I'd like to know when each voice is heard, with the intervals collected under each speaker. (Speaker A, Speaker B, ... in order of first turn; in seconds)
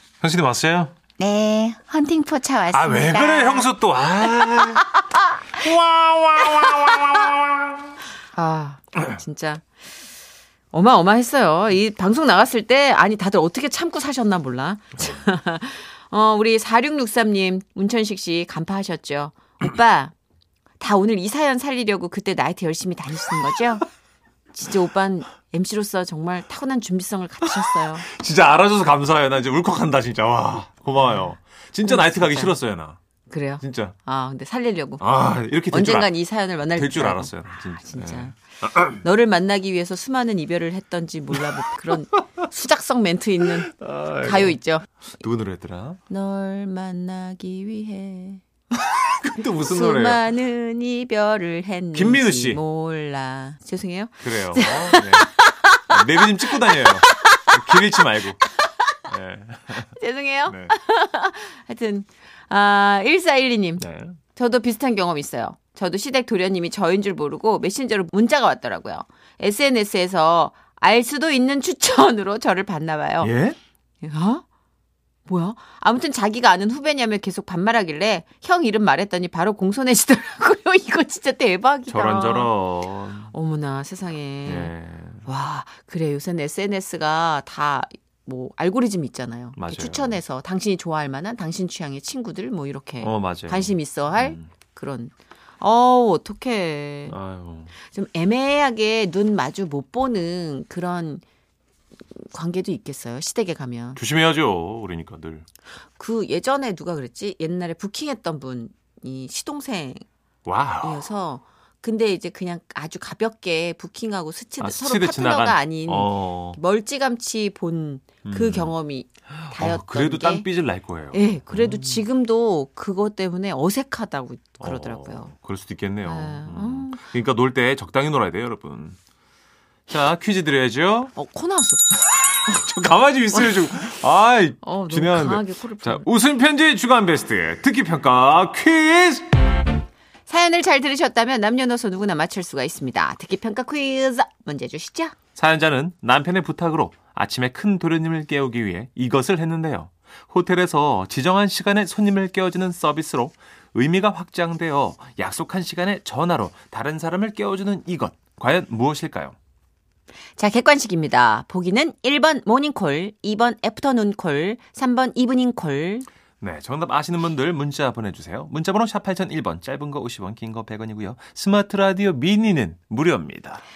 Speaker A: 0.2-0.9, 2.7-5.0, 5.5-7.8, 28.0-33.0, 33.6-34.0, 35.0-36.1, 36.8-39.0, 43.8-44.6, 45.2-46.0, 48.8-50.2, 52.0-52.6, 54.2-55.3, 55.9-58.4, 59.1-60.0, 60.5-60.7, 63.8-64.2, 73.2-73.6, 81.9-83.3, 84.5-85.2, 89.6-90.2, 93.0-94.5, 97.1-97.7, 104.0-105.5, 110.5-111.1, 114.6-116.6, 118.2-118.8, 119.6-122.0, 124.6-129.0, 129.9-131.1, 132.5-139.3, 145.4-159.4, 166.4-173.6
Speaker B: 1.2-3.7, 8.3-9.6, 10.7-20.1, 20.8-23.8, 24.5-28.1, 31.9-32.5, 33.3-35.0, 35.7-38.3, 38.9-44.9, 46.1-48.4, 49.6-55.3, 60.0-63.8, 64.4-73.3, 74.0-74.4, 75.3-82.5, 83.3-84.7, 85.3-97.2, 97.9-101.2, 102.1-104.0, 106.0-110.0, 110.8-120.5, 121.1-125.3, 126.1-127.0, 131.2-131.8, 134.6-136.1, 140.3-145.2, 160.4-166.1